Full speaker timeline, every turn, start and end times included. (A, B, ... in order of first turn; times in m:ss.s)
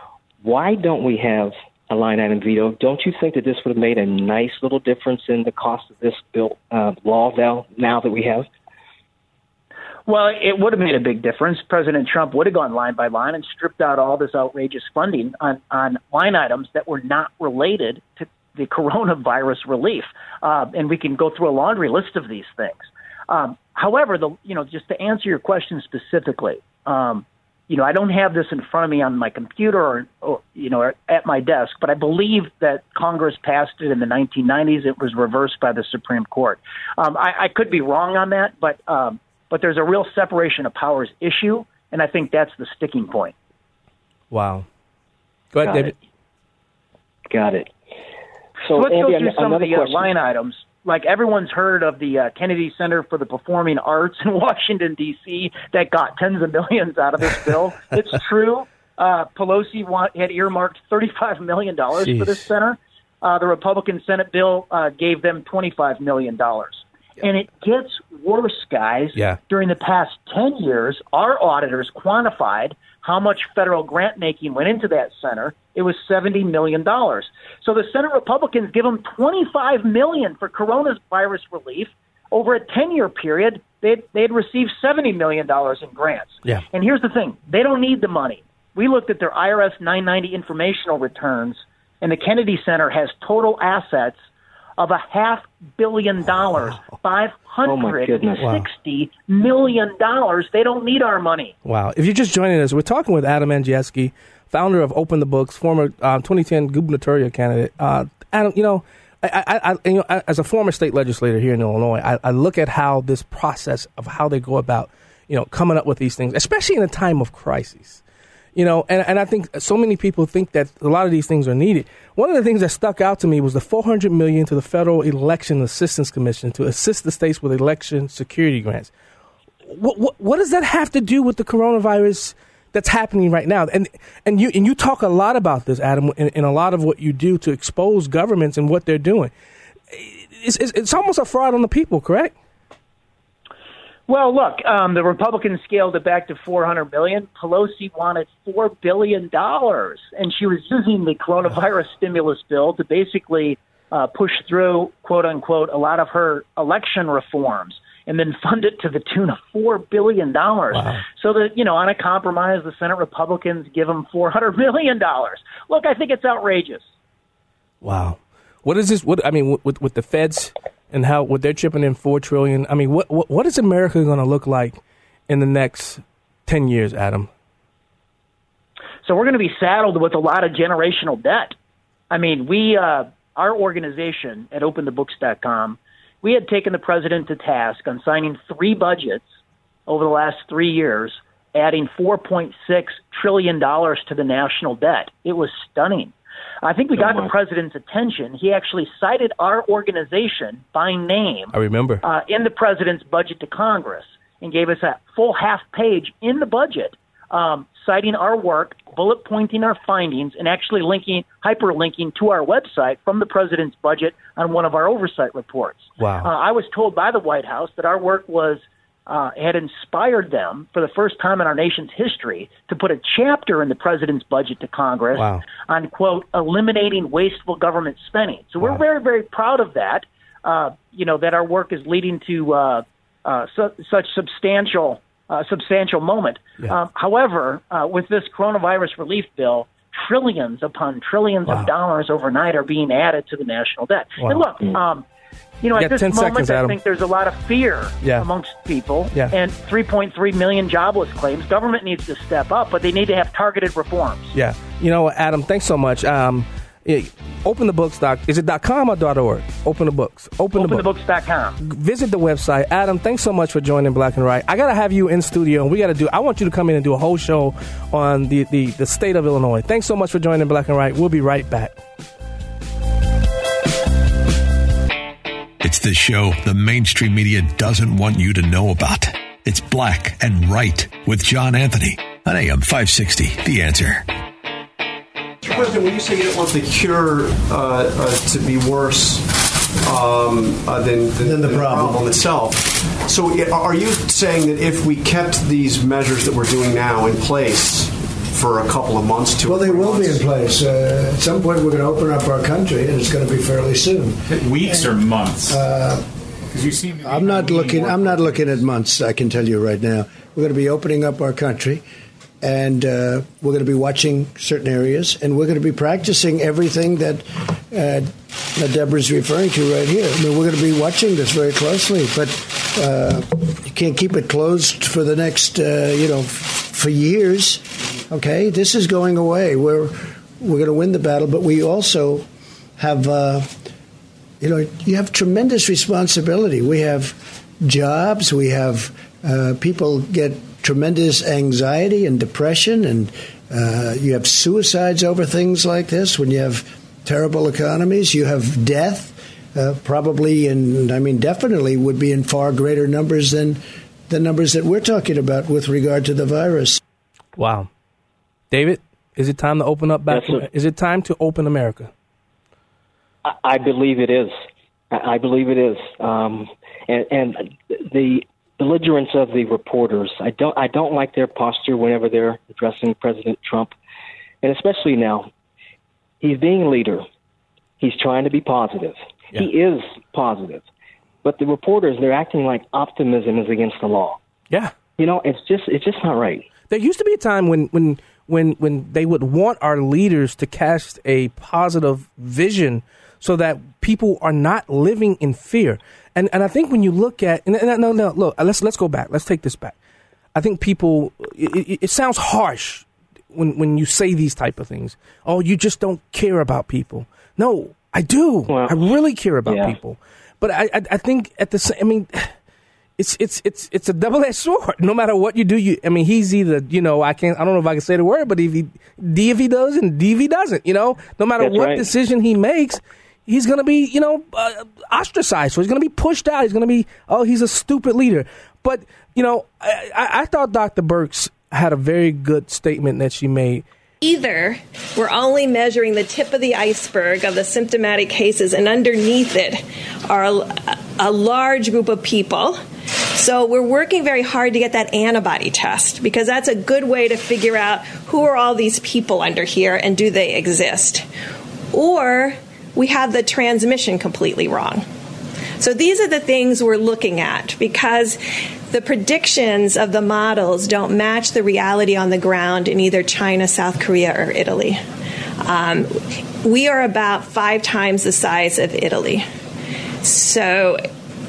0:00.4-0:08.5 A
0:10.1-0:43.3 B
0:44.3-0:44.7 C
0:45.5-0:46.0 C
0:45.6-0:45.9 A
0:47.3-0:47.7 A
0:48.6-0:50.1 A
0:48.7-1:34.2 B
1:02.0-1:02.5 C
1:34.8-1:41.6 B
1:37.6-1:38.5 A
1:38.4-1:38.7 C
1:41.6-1:58.0 C
1:58.6-2:08.9 C
2:09.7-2:19.3 C
2:19.9-2:22.3 C
2:24.1-2:46.8 B
2:40.7-2:41.0 C
2:47.8-2:57.3 C
2:59.0-3:01.6 B
3:02.1-3:09.3 B
3:09.9-4:05.0 B
3:17.0-3:17.3 A
3:21.5-3:22.0 C
3:36.0-3:36.3 C
3:45.2-3:45.4 C
4:04.2-4:04.4 C
4:05.6-4:14.3 B
4:05.8-4:06.8 C
4:08.0-4:08.3 C
4:14.3-4:20.9 C
4:20.6-4:21.6 B
4:21.6-4:31.8 C
4:35.6-4:44.1 D
4:45.4-4:49.3 E
4:49.8-5:00.3 E
4:51.2-4:52.0 F
4:59.4-5:06.0 F
5:04.3-5:05.6 G
5:06.5-5:08.7 G
5:07.0-5:11.8 F
5:12.4-5:32.3 F
5:32.8-5:33.5 F
5:34.4-5:56.8 F
5:57.4-5:57.7 C
5:58.5-6:01.9 C
6:00.1-6:00.4 A
6:03.2-6:04.4 A
6:04.9-6:13.7 A
6:14.4-6:15.3 A
6:16.2-6:17.0 A
6:17.8-6:20.7 A
6:21.2-6:24.2 A
6:25.0-6:26.5 A
6:26.7-6:39.8 C
6:40.4-6:52.3 C
6:48.5-6:48.8 A
6:49.5-6:49.8 A
6:53.0-7:13.7 C
7:01.4-7:01.9 A
7:14.0-7:22.6 H
7:23.1-7:31.1 H
7:31.7-7:34.8 H
7:35.6-7:44.8 H
7:45.4-7:49.3 H
7:50.0-7:50.8 H